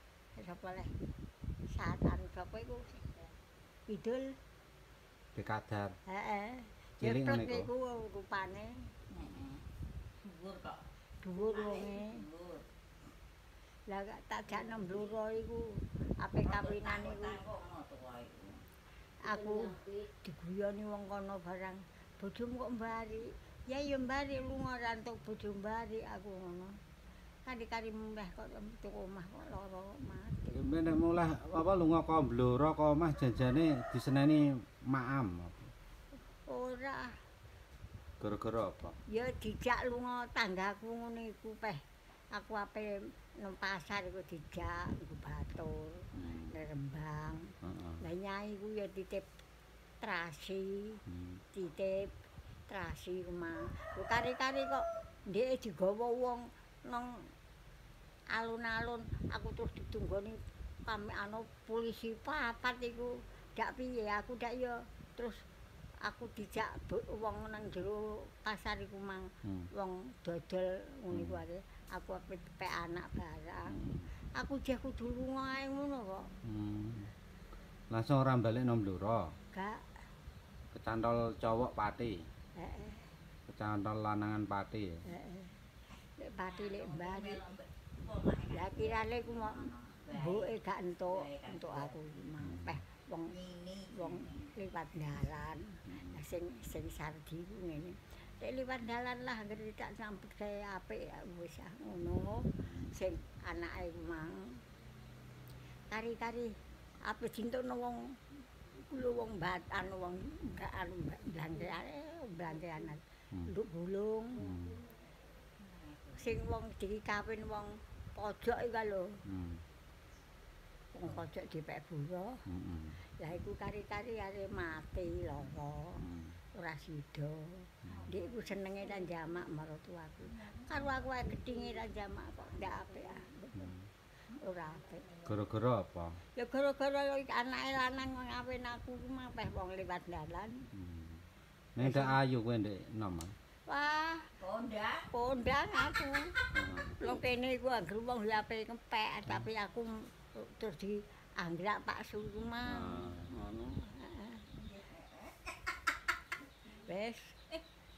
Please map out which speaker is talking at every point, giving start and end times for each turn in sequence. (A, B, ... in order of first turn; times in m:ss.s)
0:00.4-0:00.9 A
0:01.7-0:03.1 A
0:03.9-0:04.3 A
0:05.3-0:05.9 B
0:06.1-0:08.7 A
0:07.0-0:07.7 B
0:09.1-0:09.7 C
0:10.2-0:10.8 C
0:11.2-0:12.2 A
0:11.4-0:12.7 C
0:13.9-0:17.4 A
0:16.4-0:18.6 C
0:19.2-0:26.8 A
0:27.4-0:30.6 A
0:30.5-0:35.7 B
0:36.4-0:37.2 A
0:38.2-0:39.0 B
0:39.1-0:49.2 A
0:46.1-0:46.5 B
0:47.6-0:48.0 B
0:50.0-0:51.0 A
0:51.1-0:51.4 B
0:51.5-0:52.1 A
0:52.7-0:57.3 A
0:58.3-1:05.4 A
1:06.0-1:13.8 A
1:11.1-1:11.4 B
1:13.7-1:14.1 B
1:14.3-1:16.3 A
1:16.4-1:17.1 B
1:17.9-1:19.3 B
1:19.5-1:19.8 A
1:20.7-1:22.2 B
1:22.6-1:23.1 A
1:23.5-1:25.0 B
1:25.1-1:25.6 A
1:26.2-1:27.4 A
1:26.4-1:30.5 C
1:28.5-1:33.3 A
1:31.1-1:32.0 C
1:32.4-1:32.8 B
1:33.3-1:34.5 C
1:33.9-1:44.6 A
1:35.9-1:36.2 B
1:42.6-1:42.9 B
1:45.9-1:46.5 A
1:47.0-1:48.0 A
1:48.7-1:54.5 A
1:54.4-1:54.8 B
1:55.6-1:56.4 C
1:56.2-1:59.2 A
1:59.3-1:59.6 B
2:00.9-2:02.4 A
2:02.5-2:03.0 B
2:03.2-2:13.7 A
2:06.0-2:06.4 B
2:07.8-2:08.1 B
2:07.9-2:08.5 C
2:10.4-2:11.0 C
2:13.6-2:13.9 B
2:14.4-2:15.1 A
2:15.0-2:15.3 C
2:15.2-2:16.2 B
2:16.3-2:20.7 A
2:20.7-2:21.2 B
2:21.7-2:23.3 B
2:21.8-2:22.2 A
2:23.6-2:24.3 A
2:24.4-2:25.1 C
2:25.1-2:26.3 A
2:26.5-2:27.0 B
2:27.0-2:34.4 A
2:32.7-2:33.3 B
2:34.5-2:35.8 C
2:36.7-2:37.4 A